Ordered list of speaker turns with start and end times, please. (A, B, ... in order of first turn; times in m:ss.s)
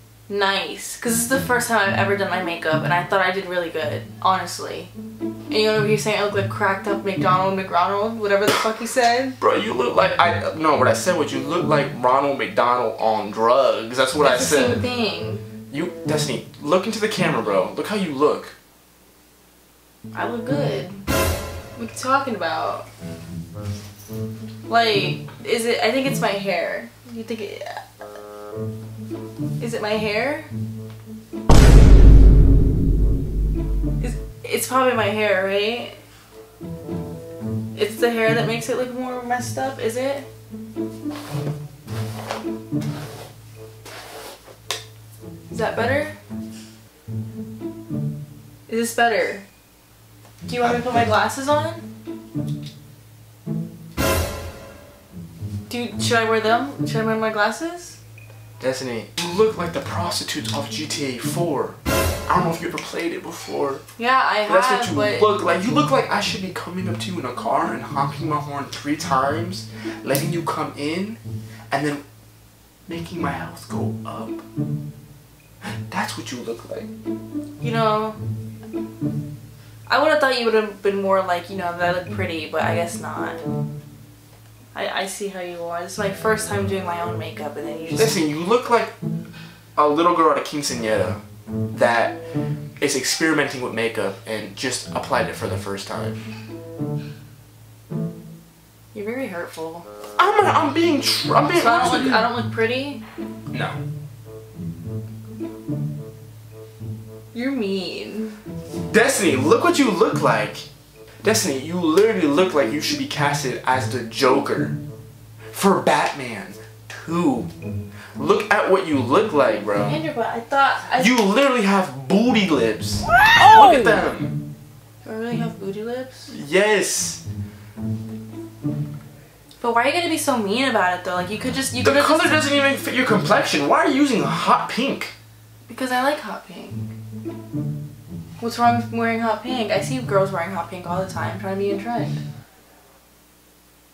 0:00.3-0:04.9 A
0:05.5-0:09.4 A
0:09.4-0:14.8 B
0:14.2-0:15.4 A
0:15.7-0:18.5 B
0:20.1-0:21.0 A
0:21.8-0:22.9 A
0:24.7-0:27.8 A
0:29.6-0:30.5 A
0:34.0-0:36.0 A
0:37.7-0:40.3 A
0:45.5-0:46.2 A
0:48.7-0:49.4 A
0:50.5-0:51.8 A
0:55.7-0:58.0 A
0:58.6-1:03.8 B
1:04.0-1:05.3 A
1:04.4-1:11.2 B
1:11.7-1:12.0 B
1:12.9-1:14.4 B
1:15.6-1:16.9 B
1:17.6-1:18.2 A
1:19.9-1:23.4 A
1:24.7-1:28.2 A
1:27.9-1:28.9 B
1:29.8-1:31.2 B
1:31.7-1:32.2 B
1:32.8-1:36.2 B
1:38.9-1:39.9 A
1:40.2-1:42.3 B
1:41.6-1:43.0 A
1:43.5-1:43.8 B
1:47.3-1:48.4 A
1:48.9-1:50.6 B
1:51.2-1:54.8 B
1:55.5-1:57.5 B
1:58.2-2:00.0 B
1:59.8-2:01.2 A
2:01.0-2:04.4 B
2:05.0-2:06.3 A
2:06.3-2:07.2 B
2:09.6-2:12.5 A
2:11.8-2:15.1 B
2:15.7-2:16.9 A
2:18.4-2:22.2 A